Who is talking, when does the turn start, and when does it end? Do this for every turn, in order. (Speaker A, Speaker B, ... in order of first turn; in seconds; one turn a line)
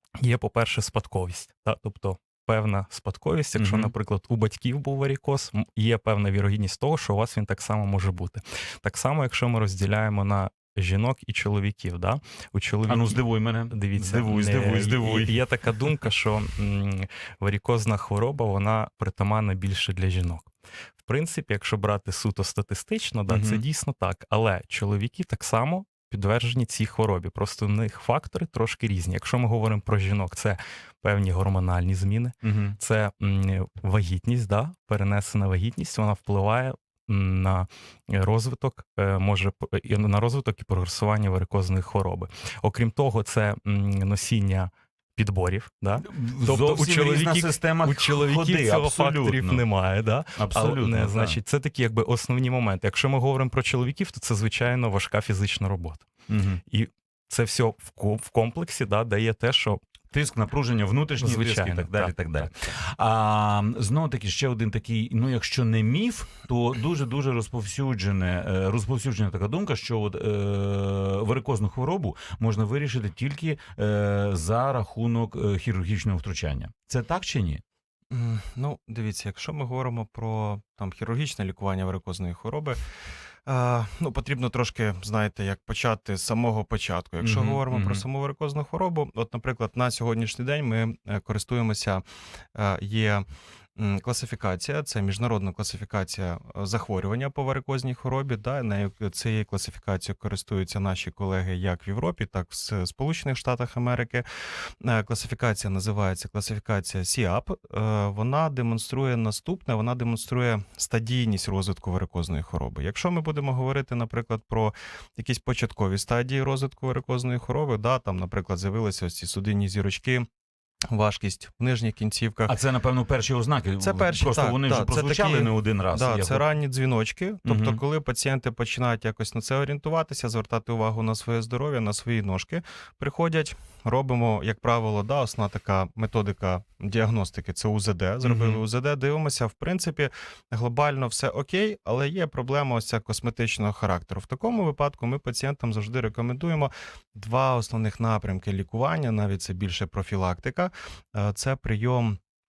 Speaker A: 0.2-20.5
Speaker B: 3.5-3.9
Speaker B: 12.9-15.3
Speaker A: 21.0-56.0
Speaker B: 23.3-23.6
Speaker B: 32.4-32.8
Speaker B: 46.0-49.6
Speaker B: 50.4-51.4
Speaker B: 56.3-56.6
Speaker A: 56.7-59.8
Speaker B: 60.1-77.6
Speaker A: 61.2-62.5
Speaker C: 78.1-82.8
Speaker C: 83.5-92.0
Speaker B: 87.2-88.0
Speaker C: 92.5-93.2
Speaker C: 93.8-104.2
Speaker C: 104.8-120.2
Speaker C: 120.9-122.5
Speaker B: 122.5-126.4
Speaker C: 123.8-152.2
Speaker B: 127.4-127.8
Speaker B: 138.2-138.6